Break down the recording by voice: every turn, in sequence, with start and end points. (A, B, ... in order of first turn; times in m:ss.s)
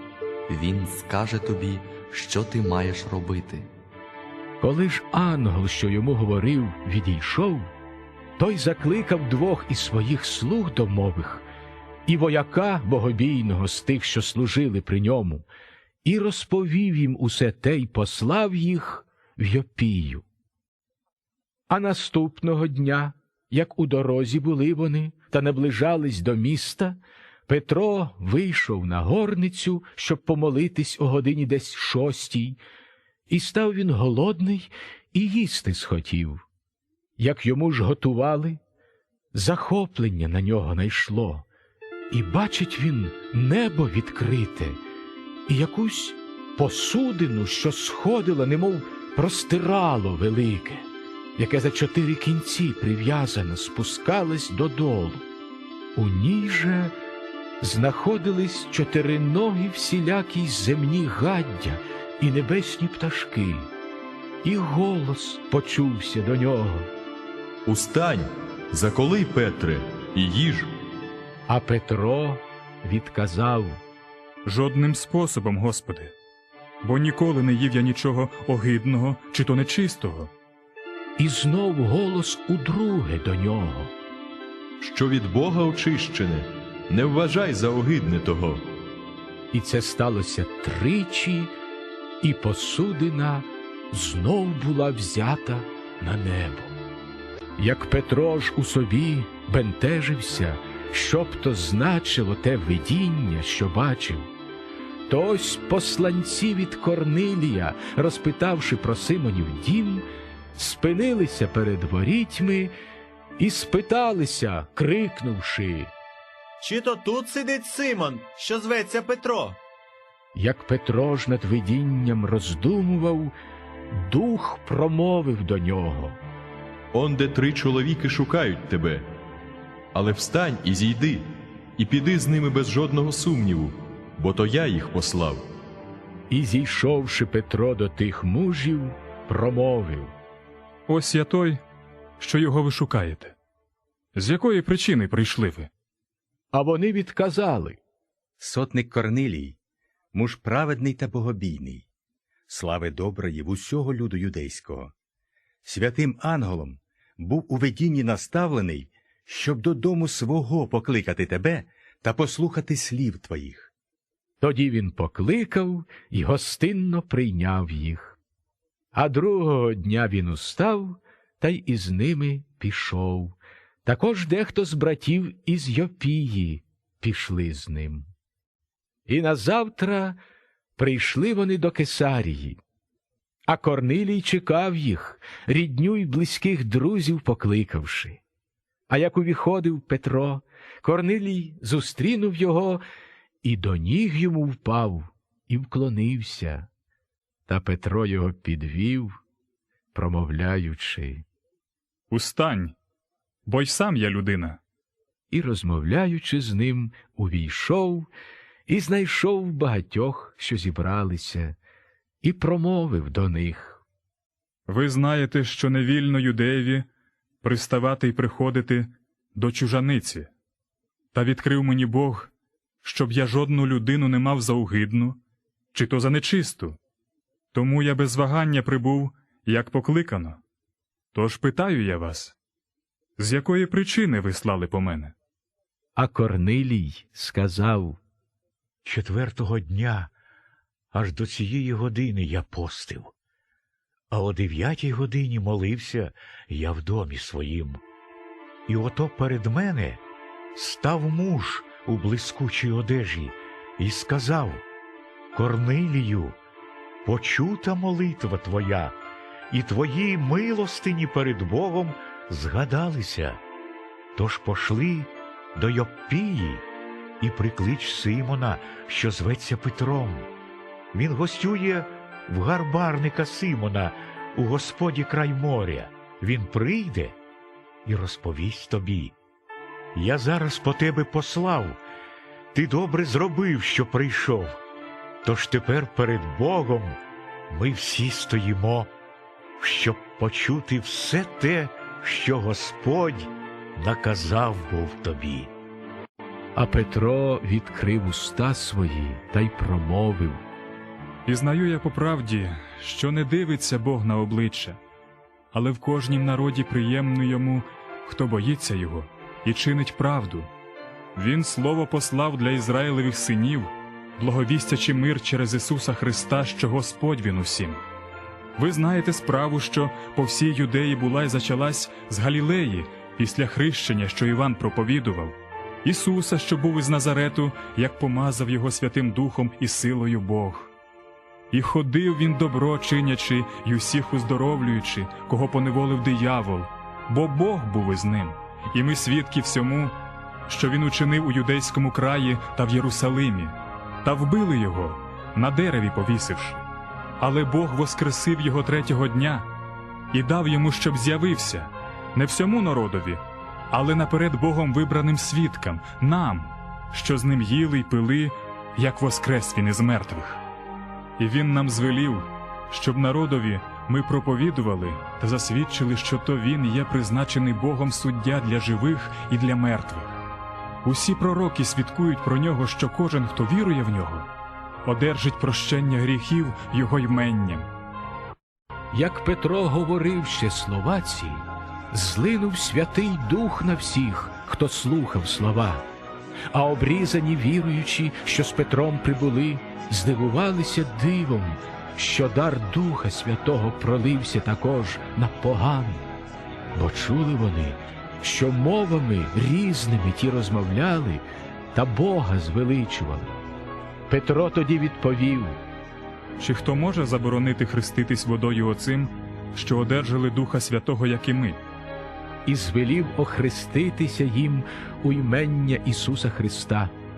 0:00.5-0:03.7 A
0:04.6-0:07.7 B
0:08.4-0:11.4 B
0:12.1-0:15.4 B
0:16.0-0:20.2 B
0:21.7-0:32.6 B
0:33.3-0:36.4 B
0:37.2-0:38.6 B
0:39.3-0:41.5 B
0:42.1-0:44.8 B
0:45.5-0:50.8 B
0:51.4-0:55.2 B
0:56.0-0:56.9 B
0:57.6-1:03.7 B
1:04.4-1:06.9 B
1:07.6-1:10.7 C
1:11.5-1:13.8 B
1:14.4-1:16.1 D
1:16.8-1:20.3 D
1:21.2-1:23.9 B
1:24.8-1:28.6 C
1:29.5-1:31.5 B
1:32.2-1:36.7 B
1:37.6-1:44.3 B
1:45.1-1:52.7 B
1:53.4-1:55.9 B
1:56.6-1:59.6 E
2:00.3-2:03.3 B
2:03.9-2:06.2 B
2:06.9-2:09.1 C
2:09.9-2:15.4 C
2:16.3-2:20.1 B
2:20.9-2:21.6 D
2:22.2-2:23.3 D
2:24.1-2:25.7 D
2:26.5-2:27.8 B
2:28.4-2:29.6 F
2:30.1-2:31.9 F
2:32.5-2:34.9 F
2:35.6-2:43.7 F
2:44.4-2:48.2 B
2:48.9-2:58.1 B
2:59.1-3:00.2 B
3:00.8-3:02.6 B
3:03.5-3:08.2 B
3:08.9-3:12.8 B
3:13.4-3:16.7 B
3:17.5-3:19.2 B
3:19.9-3:21.2 B
3:22.1-3:22.7 D
3:23.4-3:24.6 D
3:25.3-3:28.1 B
3:28.7-3:31.6 B
3:32.2-3:33.8 B
3:34.7-3:36.9 D
3:37.4-3:40.3 D
3:41.1-3:42.3 D
3:42.8-3:45.2 D
3:45.7-3:46.8 D
3:47.5-3:50.4 D
3:51.1-3:52.4 D
3:53.2-3:55.1 D
3:56.0-3:58.0 B
3:58.8-4:00.1 G
4:00.9-4:03.1 G
4:04.1-4:07.8 G
4:08.7-4:10.0 G
4:10.5-4:14.6 G
4:15.3-4:16.4 G
4:17.0-4:19.0 G
4:19.5-4:23.4 G
4:24.1-4:26.6 G
4:27.2-4:30.3 G
4:30.9-4:37.2 G
4:37.8-4:39.1 G
4:39.9-4:41.8 G
4:42.5-4:44.6 G
4:45.2-4:48.9 G
4:49.6-4:55.5 G
4:56.6-5:00.4 B
5:01.2-5:04.8 D
5:05.5-5:10.5 D
5:11.2-5:17.8 D
5:18.6-5:30.7 D
5:31.5-5:39.9 D
5:40.5-5:46.6 D
5:47.2-5:49.5 D
5:50.1-6:00.4 D
6:01.2-6:10.2 D
6:10.8-6:14.3 D
6:14.8-6:17.7 D
6:18.9-6:25.8 B
6:26.5-6:36.0 B
6:36.7-6:41.2 B
6:41.7-6:43.4 B
6:44.1-6:45.6 B
6:46.4-6:51.6 D
6:52.4-6:56.9 B